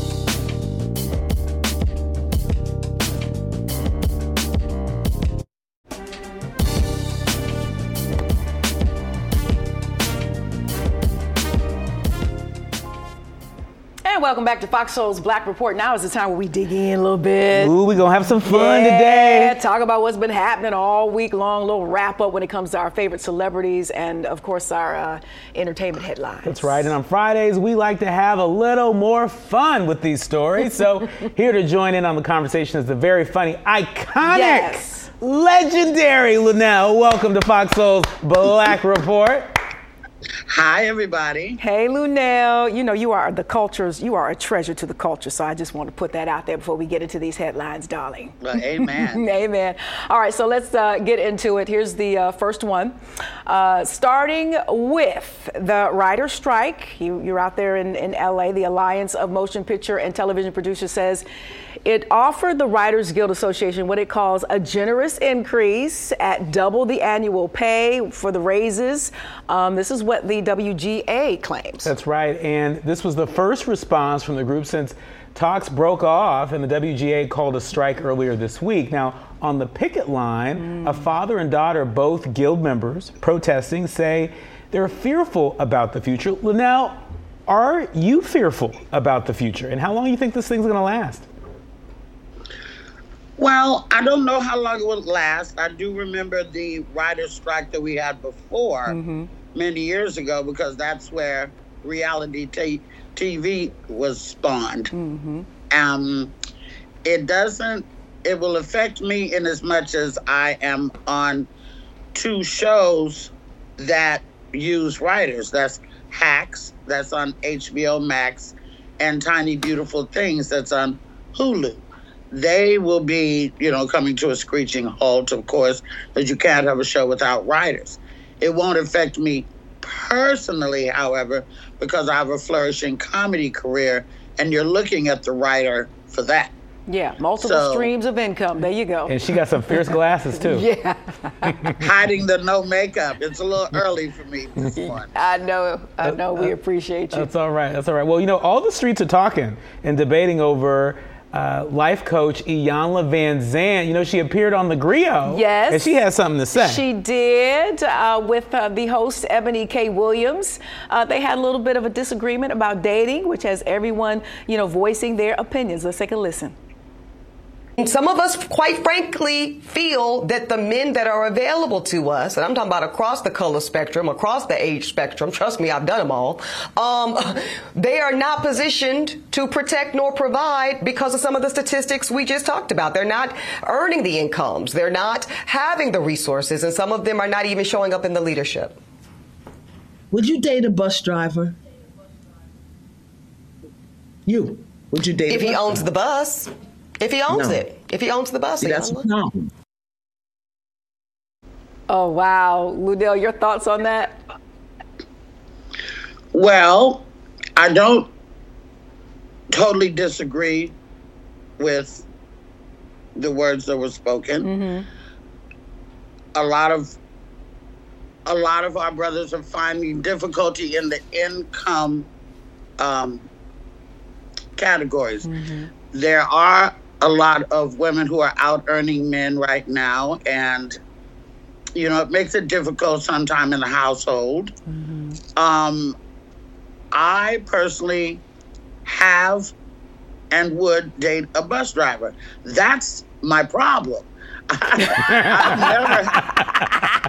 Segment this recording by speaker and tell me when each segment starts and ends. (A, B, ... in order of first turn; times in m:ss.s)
0:14.0-0:17.7 A
0:17.5-0:19.6 B
0:18.4-0:26.9 A
0:26.4-0:39.6 B
0:34.2-0:35.1 A
0:40.5-0:41.6 C
0:41.6-0:52.9 A
0:48.4-0:49.2 C
0:53.4-1:01.2 A
1:01.8-1:11.9 A
1:11.8-1:31.3 B
1:20.6-1:21.1 A
1:33.4-1:39.0 C
1:38.9-1:39.3 A
1:39.5-1:44.9 C
1:44.9-1:45.5 A
1:45.7-1:46.3 C
1:47.0-1:51.5 C
1:52.1-2:16.5 C
2:16.9-2:19.2 A
2:17.4-2:17.9 C
2:19.1-2:20.7 B
2:19.7-2:21.8 A
2:21.8-2:25.1 C
2:25.1-2:27.3 A
2:26.0-2:26.5 B
2:27.1-2:36.8 B
2:35.3-2:36.0 A
2:36.6-2:46.5 A
2:47.8-3:08.8 D
3:10.1-3:11.6 E
3:14.3-3:15.9 E
3:15.3-3:19.1 D
3:17.3-3:17.6 E
3:18.6-3:19.5 E
3:21.9-3:24.2 A
3:26.3-3:28.1 C
3:29.5-3:30.7 C
3:31.6-3:32.0 C
3:33.2-3:34.5 C
3:34.4-3:34.8 A
3:36.3-3:37.0 C
3:38.2-3:42.1 C
3:42.8-3:43.2 C
3:44.6-3:45.2 C
3:45.2-3:45.7 A
3:45.9-3:50.8 C
3:51.7-3:54.5 C
3:54.7-3:55.2 A
3:55.4-3:56.0 C
3:56.9-3:58.2 C
3:58.8-3:59.5 C
4:00.3-4:06.3 C
4:04.9-4:05.5 B